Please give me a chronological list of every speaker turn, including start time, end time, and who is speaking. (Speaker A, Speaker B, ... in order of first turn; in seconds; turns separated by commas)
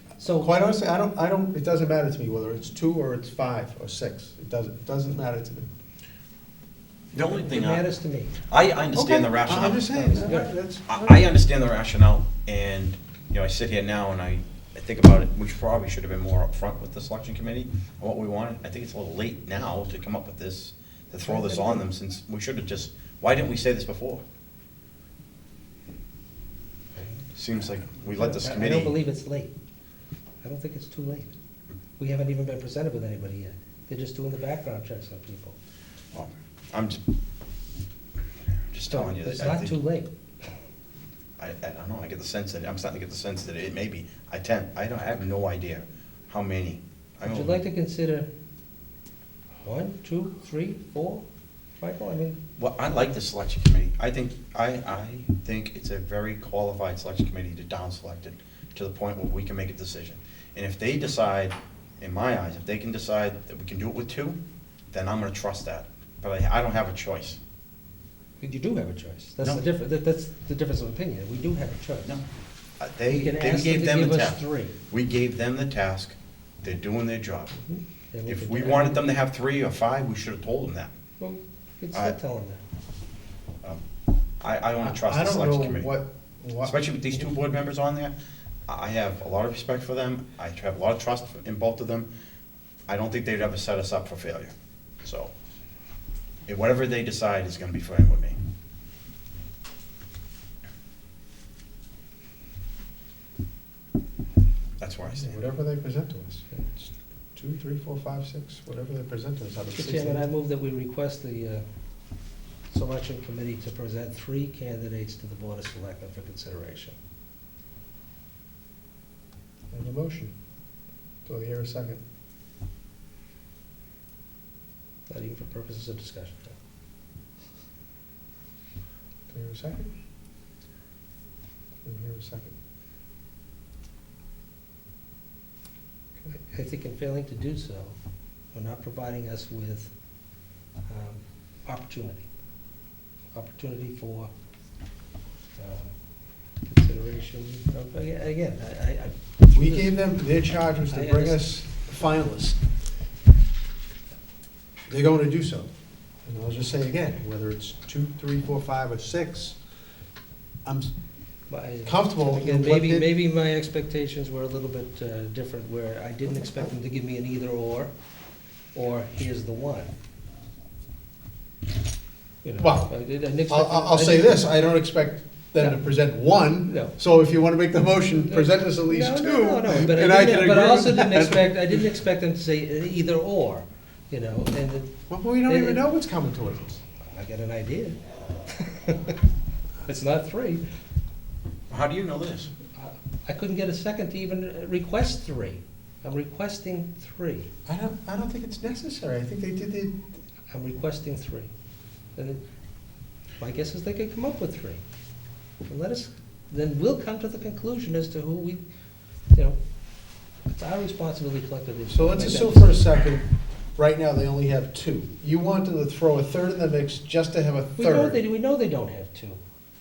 Speaker A: 0.2-0.5, Speaker B: 0.3-5.7, Speaker C: 7.1-7.9, Speaker A: 7.2-8.3, Speaker C: 8.5-24.2, Speaker B: 8.9-11.2, Speaker A: 9.9-10.5, Speaker A: 21.2-21.8, Speaker C: 27.3-29.0, Speaker A: 28.1-29.5, Speaker A: 30.4-31.3, Speaker A: 32.0-35.5, Speaker C: 36.1-37.0, Speaker C: 38.7-39.8, Speaker A: 38.9-40.1, Speaker C: 41.4-47.6, Speaker A: 47.2-48.3, Speaker A: 49.6-51.2, Speaker A: 51.8-52.4, Speaker C: 52.6-64.4, Speaker C: 64.9-67.4, Speaker A: 68.4-72.2, Speaker C: 72.8-77.5, Speaker A: 73.1-74.7, Speaker A: 77.5-79.0, Speaker C: 78.3-80.9, Speaker A: 81.2-82.6, Speaker C: 84.4-85.9, Speaker B: 84.8-86.8, Speaker C: 86.6-88.1, Speaker C: 88.7-92.1, Speaker C: 92.9-95.3, Speaker C: 96.5-98.4, Speaker C: 104.8-105.4, Speaker B: 105.1-110.2, Speaker A: 109.7-111.6, Speaker A: 112.7-117.0, Speaker B: 119.7-120.3, Speaker B: 121.2-122.0, Speaker A: 125.1-126.6, Speaker B: 129.3-129.9, Speaker B: 131.8-132.5, Speaker A: 136.4-137.9, Speaker A: 138.5-139.9, Speaker A: 140.9-142.2, Speaker A: 143.3-144.3, Speaker A: 145.6-145.9, Speaker A: 146.6-149.9, Speaker B: 149.5-152.6, Speaker A: 150.9-151.5, Speaker B: 154.9-155.7, Speaker B: 156.2-159.6, Speaker B: 160.6-160.9, Speaker A: 161.5-167.9, Speaker B: 161.8-163.1, Speaker A: 168.7-169.9, Speaker A: 172.4-174.4, Speaker B: 172.6-172.9, Speaker B: 173.5-181.9, Speaker A: 176.7-176.9, Speaker A: 178.2-184.9, Speaker B: 185.1-186.8, Speaker A: 185.4-185.8, Speaker A: 187.1-189.2, Speaker A: 189.8-190.6, Speaker C: 191.7-192.5, Speaker A: 192.7-197.5, Speaker B: 197.7-200.0, Speaker A: 200.5-201.5, Speaker A: 202.2-202.4, Speaker A: 203.4-204.8, Speaker A: 205.7-208.6, Speaker A: 210.5-212.8, Speaker B: 211.9-213.2, Speaker B: 213.8-218.2, Speaker A: 217.8-219.4